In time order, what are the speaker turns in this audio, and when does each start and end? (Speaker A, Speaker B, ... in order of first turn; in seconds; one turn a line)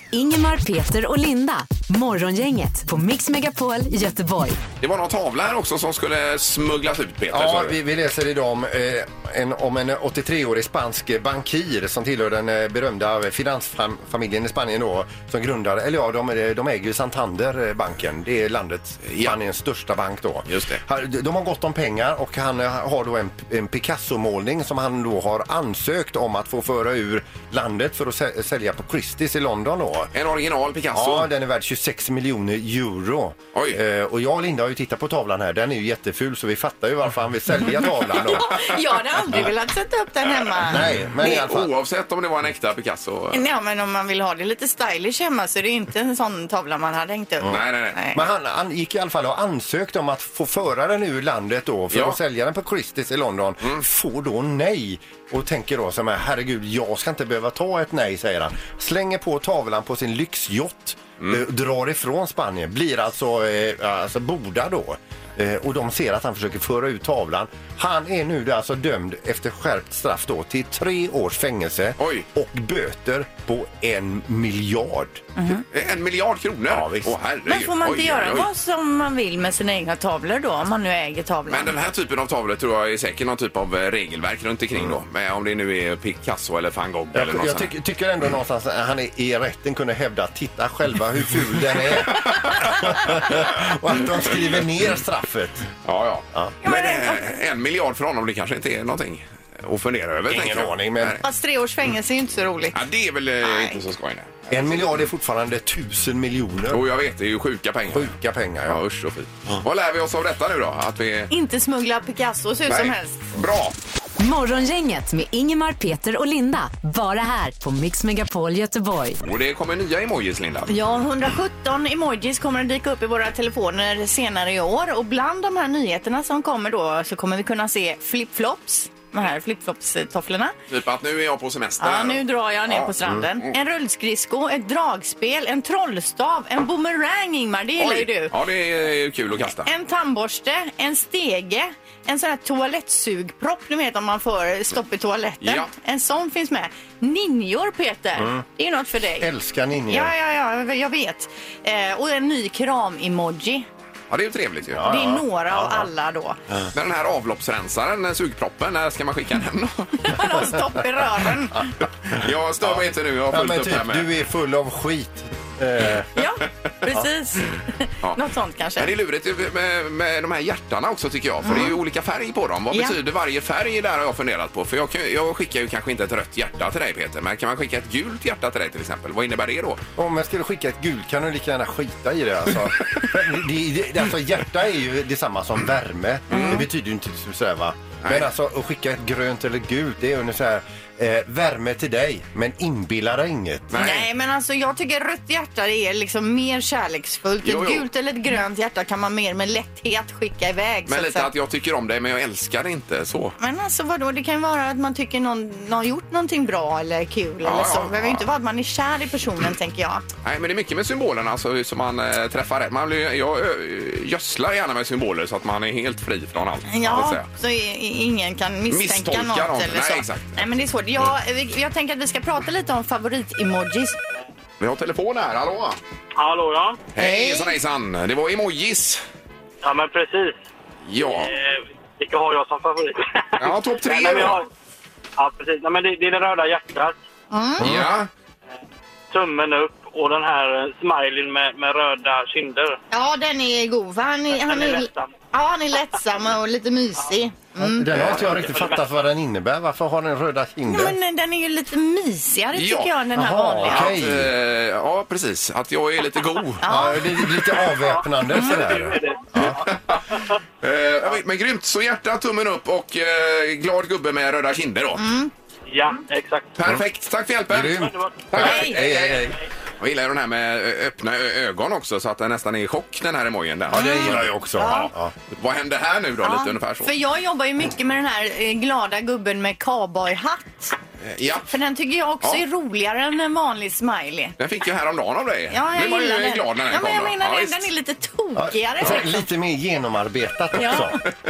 Speaker A: 0.1-4.6
Speaker B: 4.8-7.8
Speaker C: 7.3-30.1
Speaker B: 19.0-19.4
Speaker B: 20.5-20.8
Speaker B: 30.1-31.3
Speaker C: 30.9-38.6
Speaker B: 33.5-33.8
Speaker D: 38.1-40.9
Speaker C: 40.7-41.7
Speaker B: 41.1-43.4
Speaker D: 43.3-48.2
Speaker B: 47.4-48.0
Speaker C: 48.1-75.2
Speaker B: 51.9-52.2
Speaker B: 72.0-72.2
Speaker D: 75.3-75.6
Speaker B: 75.7-78.5
Speaker C: 76.7-77.2
Speaker D: 77.5-81.7
Speaker B: 81.5-87.7
Speaker C: 87.1-95.7
Speaker B: 92.2-92.8
Speaker B: 95.8-101.2
Speaker D: 96.6-97.3
Speaker C: 100.3-101.2
Speaker D: 101.2-102.8
Speaker B: 102.7-105.0
Speaker D: 103.4-103.8
Speaker C: 104.5-106.8
Speaker B: 106.7-108.1
Speaker C: 107.9-108.8
Speaker B: 108.6-111.3
Speaker D: 111.3-113.2
Speaker B: 112.7-113.8
Speaker A: 114.2-119.2
Speaker B: 119.2-120.7
Speaker D: 120.7-130.5
Speaker B: 130.7-133.5
Speaker D: 131.8-138.3
Speaker B: 137.8-139.7
Speaker D: 139.6-149.3
Speaker B: 145.4-145.7
Speaker C: 148.2-148.4
Speaker C: 149.2-150.1
Speaker D: 149.9-153.7
Speaker B: 154.1-154.8
Speaker C: 154.7-155.9
Speaker D: 154.8-156.4
Speaker B: 156.7-160.2
Speaker D: 160.0-161.7
Speaker B: 162.1-164.1
Speaker C: 162.6-166.1
Speaker D: 166.2-168.9
Speaker B: 168.8-179.8
Speaker D: 171.4-171.7
Speaker C: 179.9-193.8
Speaker D: 186.3-186.6
Speaker B: 186.3-186.6
Speaker B: 188.0-188.3
Speaker B: 193.7-194.1
Speaker D: 193.7-201.3
Speaker B: 197.4-197.9
Speaker B: 200.9-203.3
Speaker D: 203.4-210.0
Speaker B: 207.4-208.3
Speaker B: 210.2-217.3
Speaker D: 216.7-224.0
Speaker B: 218.7-220.4
Speaker B: 224.6-225.8
Speaker E: 226.2-226.8
Speaker B: 226.9-229.0
Speaker D: 227.0-227.6
Speaker E: 229.6-230.4
Speaker B: 230.8-231.3
Speaker E: 231.1-234.5
Speaker B: 233.4-234.4
Speaker E: 235.2-237.0
Speaker D: 237.3-237.7
Speaker B: 237.6-238.1
Speaker C: 237.6-237.9
Speaker E: 239.1-242.8
Speaker D: 242.9-247.9
Speaker E: 244.4-245.1
Speaker C: 247.6-250.9
Speaker B: 247.9-248.4
Speaker E: 248.2-248.8
Speaker D: 250.7-253.9
Speaker B: 252.5-252.9
Speaker C: 253.2-254.3
Speaker B: 253.6-256.7
Speaker D: 256.6-257.1
Speaker C: 256.6-259.6
Speaker E: 257.9-259.2
Speaker D: 258.3-258.7
Speaker B: 259.4-265.1
Speaker D: 265.0-265.3
Speaker E: 265.7-266.6
Speaker B: 266.6-269.3
Speaker C: 267.5-269.4
Speaker E: 267.8-268.2
Speaker D: 268.4-268.8
Speaker B: 269.8-274.8
Speaker C: 273.7-275.1
Speaker D: 273.7-274.9
Speaker B: 275.3-276.9
Speaker D: 276.2-280.8
Speaker B: 281.0-281.5
Speaker D: 281.5-284.4
Speaker B: 284.4-287.7
Speaker D: 285.5-289.2
Speaker C: 288.4-291.0
Speaker D: 290.6-290.9